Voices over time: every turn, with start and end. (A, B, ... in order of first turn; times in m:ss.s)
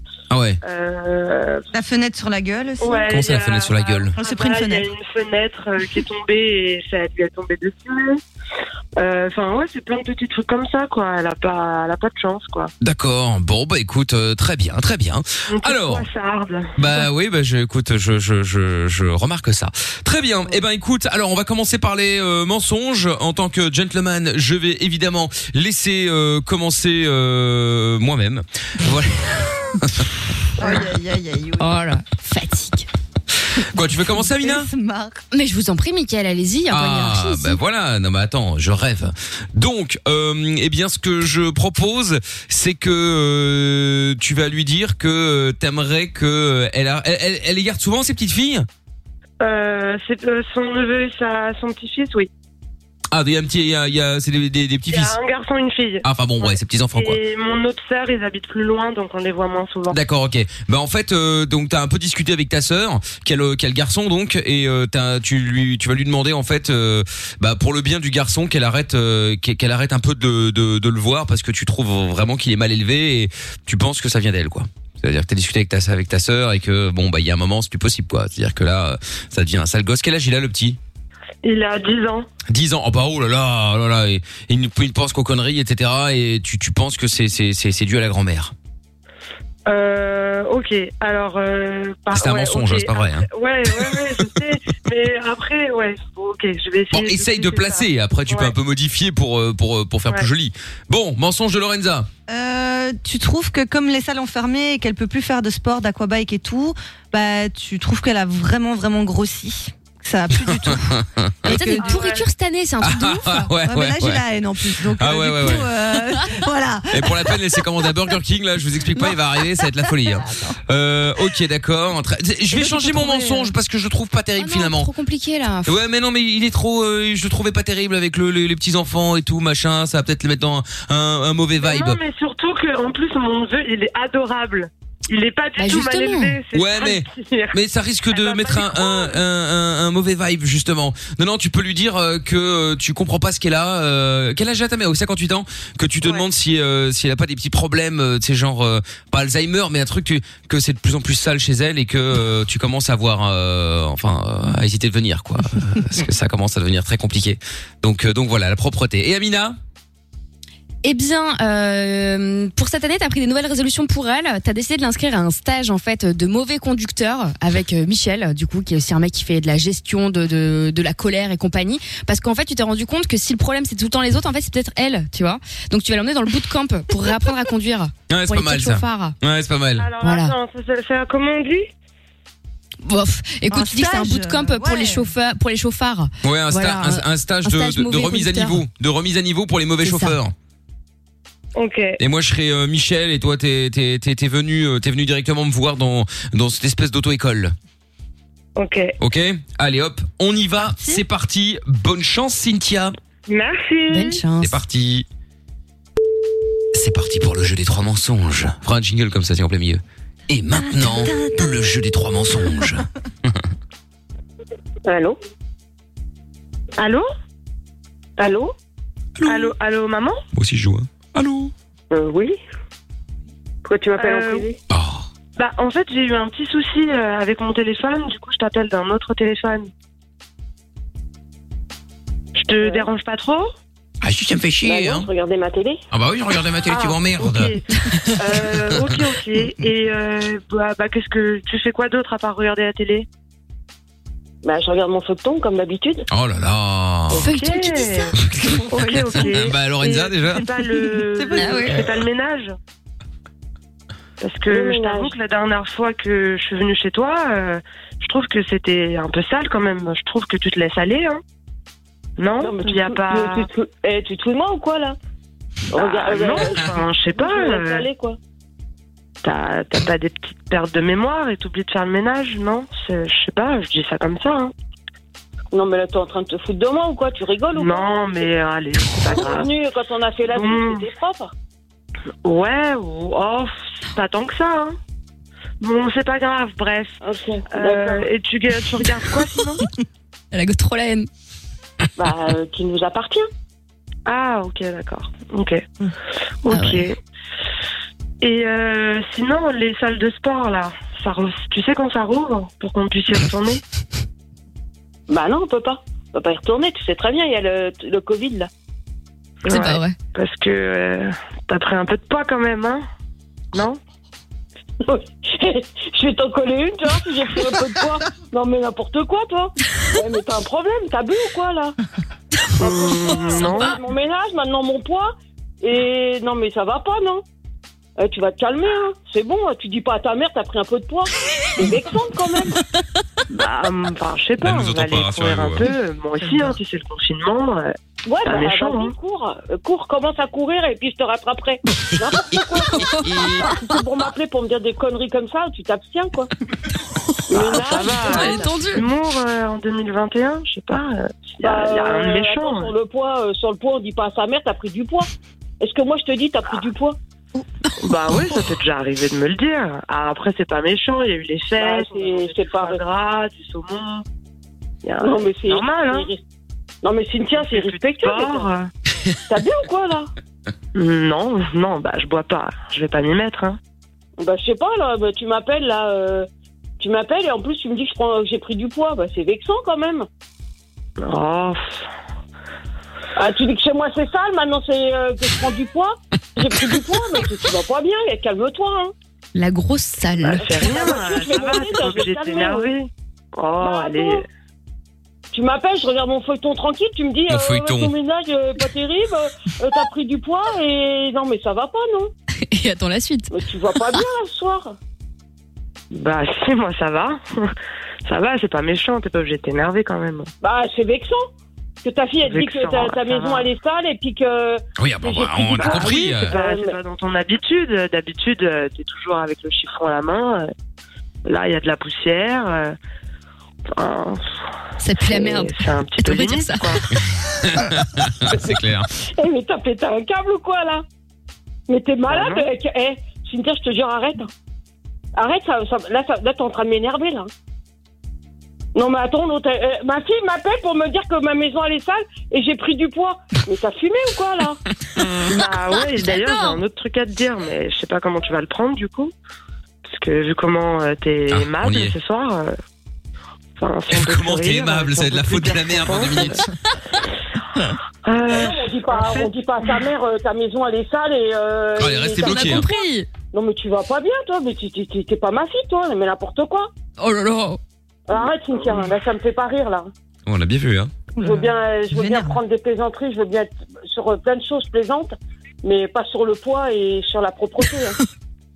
0:00.3-0:00.6 A
0:00.6-0:01.6 B
0:01.7-0:03.2 C
0:02.8-0:08.2 B
0:03.1-0:04.2 A
0:04.2-0:04.9 C
0:09.0-0:12.7 B
0:12.8-0:16.1 A
0:15.5-0:17.1 B
0:16.8-0:30.1 A
0:30.6-0:31.7 C
0:31.6-0:32.9 D
0:33.7-0:34.7 A
0:34.2-0:35.2 C
0:35.3-0:37.6 D
0:36.7-0:48.7 A
0:49.4-0:52.3 B
0:53.1-0:55.2 A
0:54.9-1:00.0 B
0:56.0-0:57.2 A
0:59.9-1:20.8 A
1:21.4-1:22.3 B
1:22.5-1:28.5 A
1:29.7-1:38.5 B
1:32.1-1:34.2 A
1:36.9-1:42.1 A
1:42.3-1:50.9 C
1:50.7-1:51.7 A
1:51.4-1:52.0 C
1:51.4-1:53.5 D
1:51.8-1:52.2 B
1:52.8-1:54.2 A
1:53.6-1:57.9 C
1:54.9-1:55.7 A
1:56.9-2:04.9 A
1:59.0-2:00.5 C
2:02.5-2:03.5 C
2:04.4-2:05.8 D
2:05.6-2:12.0 A
2:11.6-2:17.6 B
2:15.6-2:16.4 D
2:16.5-2:39.6 A
2:18.1-2:19.2 B
2:26.0-2:26.3 B
2:40.8-2:59.1 D
2:58.1-2:59.9 A
2:59.8-3:01.7 B
3:00.0-3:00.3 D
3:02.8-3:08.6 D
3:03.5-3:05.1 C
3:06.2-3:10.3 A
3:09.8-3:10.2 D
3:11.6-3:12.0 B
3:12.0-3:17.5 A
3:18.6-3:18.9 B
3:19.0-3:22.9 A
3:23.3-3:24.2 B
3:23.9-3:24.6 D
3:24.4-3:25.0 A
3:26.7-3:33.4 A
3:30.5-3:31.7 C
3:34.8-3:35.2 E
3:36.8-3:37.0 B
3:38.2-3:38.5 E
3:39.2-3:39.5 A
3:39.2-3:40.2 B
3:40.3-3:41.5 A
3:41.9-3:42.4 E
3:43.6-3:44.6 E
3:44.0-3:44.5 B
3:44.7-3:45.1 A
3:45.4-3:49.7 B
3:52.4-3:53.5 B
3:52.6-3:52.9 E
3:54.0-3:55.1 A
3:54.6-3:55.8 E
3:55.9-3:59.0 A
3:56.7-3:57.6 B
3:58.1-4:03.1 B
4:04.4-4:06.0 E
4:06.1-4:07.3 A
4:07.2-4:08.1 D
4:07.2-4:08.1 B
4:08.1-4:10.5 A
4:08.7-4:12.5 B
4:08.7-4:09.3 C
4:10.6-4:11.9 C
4:11.4-4:11.7 D
4:14.2-4:21.2 B
4:14.4-4:15.1 E
4:22.2-4:23.4 B
4:22.4-4:25.0 E
4:25.7-4:28.2 E
4:25.7-4:27.8 B
4:29.2-4:34.5 B
4:35.5-4:38.3 E
4:37.5-4:39.5 B
4:38.9-4:41.3 E
4:40.3-4:40.8 B
4:42.2-4:44.7 B
4:45.6-4:47.0 B
4:47.0-4:48.1 E
4:47.5-4:49.6 B
4:50.3-4:51.1 D
4:52.0-4:53.3 E
4:54.0-4:55.6 B
4:56.4-4:57.0 B
4:56.5-4:56.9 D
4:58.2-5:03.6 B
5:05.1-5:08.5 E
5:09.5-5:09.9 D
5:09.5-5:12.8 B
5:13.5-5:13.8 B
5:14.8-5:21.8 E
5:22.6-5:23.7 B
5:22.6-5:27.2 E
5:28.0-5:32.6 E
5:33.3-5:37.7 B
5:34.4-5:35.7 A
5:38.0-5:46.3 E
5:38.2-5:38.9 B
5:43.0-5:43.5 A
5:47.3-5:48.5 E
5:47.4-5:52.7 B
5:47.4-5:48.8 D
5:51.4-5:55.1 E
5:55.6-5:57.0 E
5:57.8-6:04.0 B
6:01.6-6:02.8 E
6:04.8-6:06.2 E
6:05.5-6:06.1 B
6:06.8-6:08.5 E
6:07.4-6:08.7 B
6:09.3-6:10.1 E
6:10.7-6:13.6 B
6:14.2-6:16.3 E
6:16.8-6:20.1 E
6:21.0-6:21.9 B
6:23.1-6:28.9 E
6:29.3-6:31.1 D
6:30.2-6:34.2 B
6:30.4-6:32.7 E
6:33.6-6:34.2 E
6:35.3-6:42.1 E
6:37.3-6:37.9 A
6:42.5-6:43.3 D
6:43.3-6:44.8 E
6:45.9-6:47.5 B
6:48.0-6:50.3 B
6:50.4-6:51.2 E
6:51.8-6:56.8 E
6:52.2-6:53.4 B
6:54.8-6:56.3 A
6:55.6-7:00.5 B
7:01.2-7:02.8 B
7:03.7-7:04.4 B
7:04.8-7:06.8 D
7:05.0-7:06.8 B
7:07.0-7:08.9 A
7:09.2-7:10.8 E
7:11.7-7:14.3 E
7:12.1-7:12.4 B
7:15.1-7:17.3 E
7:18.7-7:24.6 E
7:25.2-7:29.1 B
7:26.0-7:26.6 D
7:29.8-7:32.5 B
7:31.3-7:31.9 A
7:33.6-7:36.4 B
7:33.9-7:36.4 A
7:38.0-7:39.3 B
7:38.2-7:42.6 E
7:41.8-7:42.6 A
7:42.1-7:43.1 D
7:43.3-7:46.7 E
7:47.0-7:47.6 D
7:48.1-7:49.9 E
7:50.2-7:50.9 A
7:51.2-7:52.4 C
7:51.2-7:58.0 E